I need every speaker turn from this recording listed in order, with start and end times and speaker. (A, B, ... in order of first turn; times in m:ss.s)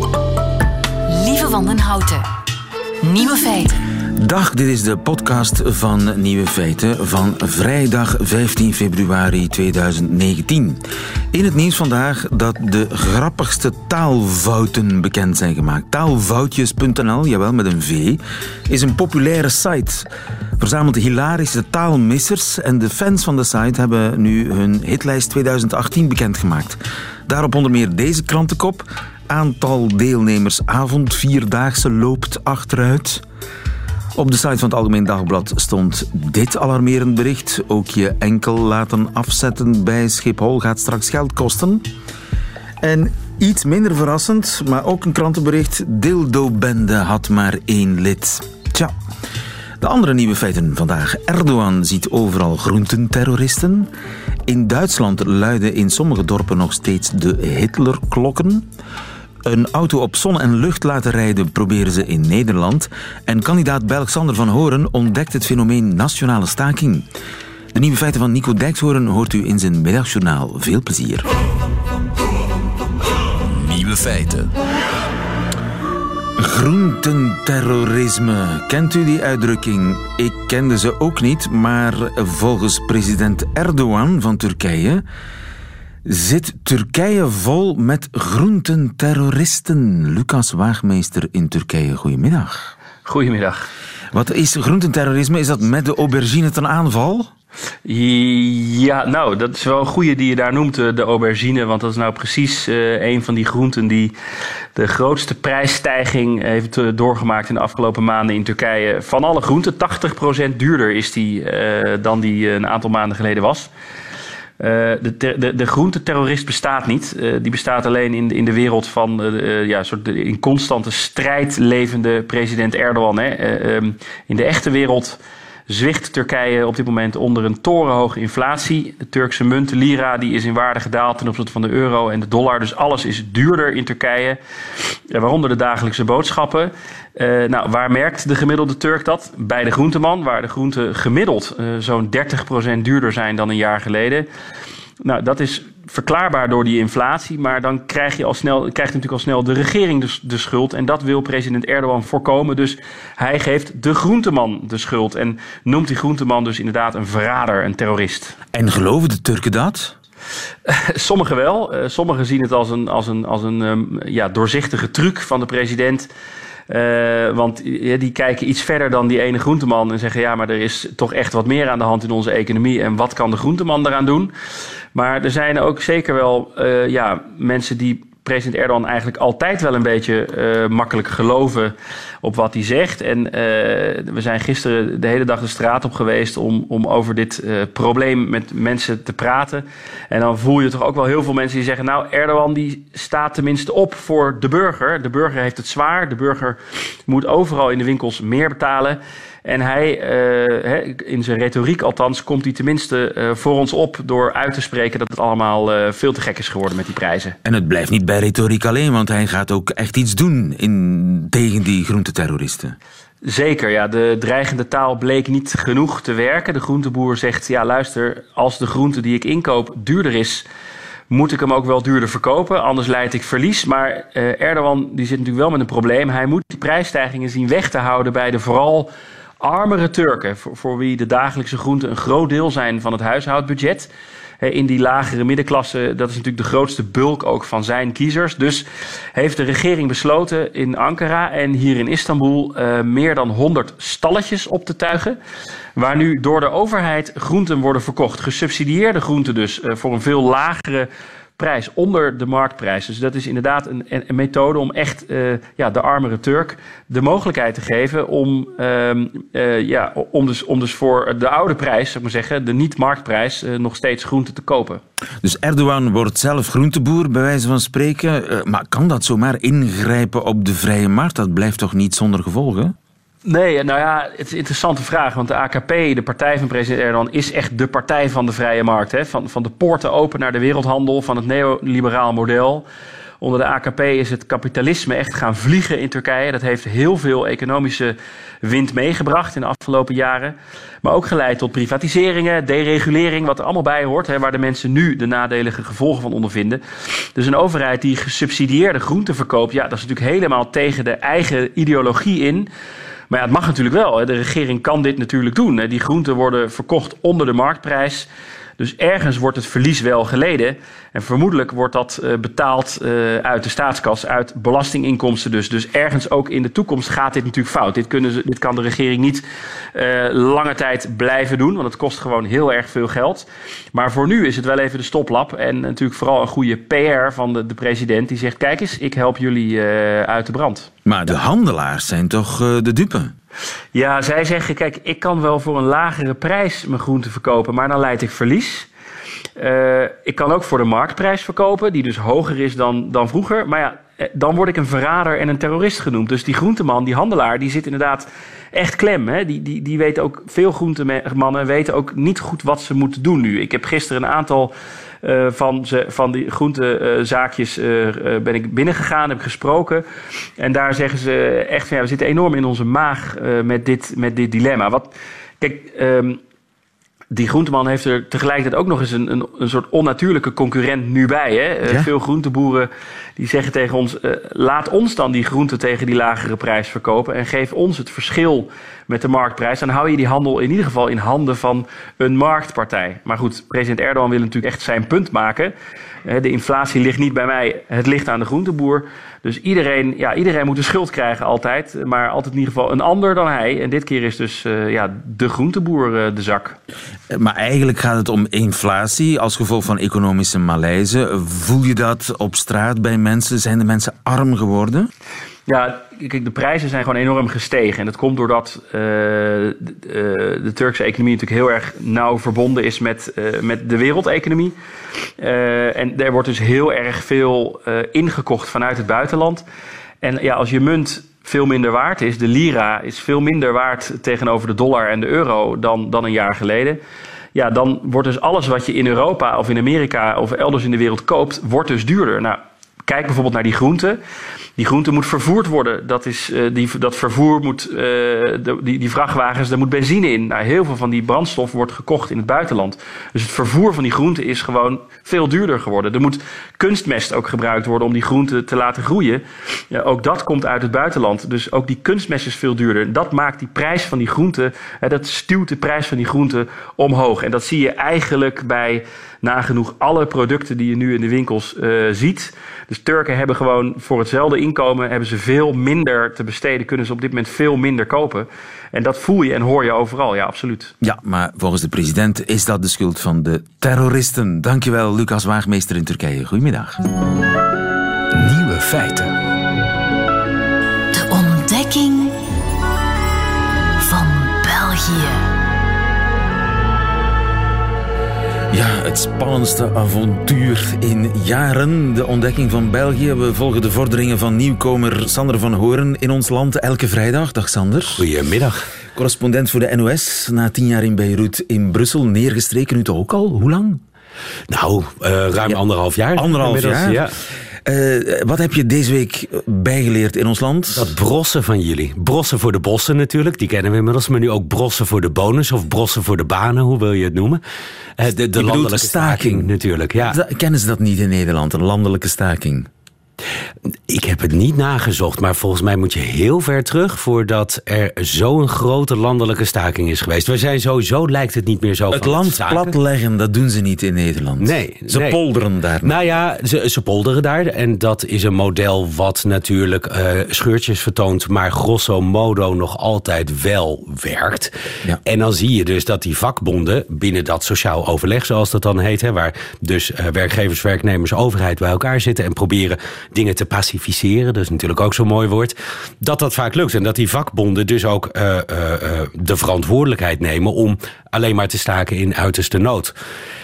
0:01.1-0:02.2 A
0:03.0-0:03.8 A
0:04.1-0:33.2 B
0:34.1-0:41.9 B
0:42.8-0:48.9 B
0:49.8-0:53.9 B
0:54.4-0:58.7 B
0:59.4-1:07.1 B
1:07.7-1:11.3 B
1:13.5-1:14.5 C
1:16.4-1:25.0 B
1:26.0-1:32.7 B
1:33.0-1:33.7 D
1:34.1-1:37.3 B
1:37.8-1:44.1 D
1:44.7-1:53.7 D
1:54.6-2:14.4 D
2:15.1-2:24.3 D
2:25.0-2:38.3 D
2:38.5-2:39.9 B
2:40.6-2:46.1 D
2:46.7-2:54.3 D
2:54.9-3:27.4 D
3:27.4-3:32.8 B
3:33.2-3:40.4 D
3:41.1-3:48.9 D
3:49.4-3:53.9 D
3:54.4-4:05.2 D
4:05.8-4:24.8 D
4:25.2-4:32.7 B
4:33.2-4:42.6 D
4:43.2-4:56.6 D
4:57.1-5:02.5 D
5:03.1-5:08.1 D
5:08.6-5:30.7 D
5:30.8-5:33.1 B
5:33.7-5:38.7 D
5:39.4-5:59.8 D
6:00.4-6:06.2 D
6:07.1-6:25.5 D
6:26.0-6:36.6 D
6:37.1-6:44.9 B
6:45.5-6:54.5 D
6:55.2-6:59.4 D
7:00.0-7:06.8 D
7:07.3-7:14.0 D
7:14.6-7:50.7 D
7:50.8-7:56.8 B
7:58.1-7:59.1 C
8:00.9-8:02.2 A
8:03.8-8:05.2 A
8:08.5-8:18.0 B
8:18.0-8:18.6 E
8:18.9-8:23.8 B
8:24.5-8:27.2 E
8:26.1-8:27.1 B
8:27.6-8:30.9 B
8:30.7-8:37.4 E
8:38.0-8:40.2 E
8:38.3-8:42.7 B
8:43.9-8:52.7 E
8:51.9-8:56.0 B
8:54.4-8:55.2 E
8:55.8-9:04.5 E
9:05.0-9:22.9 E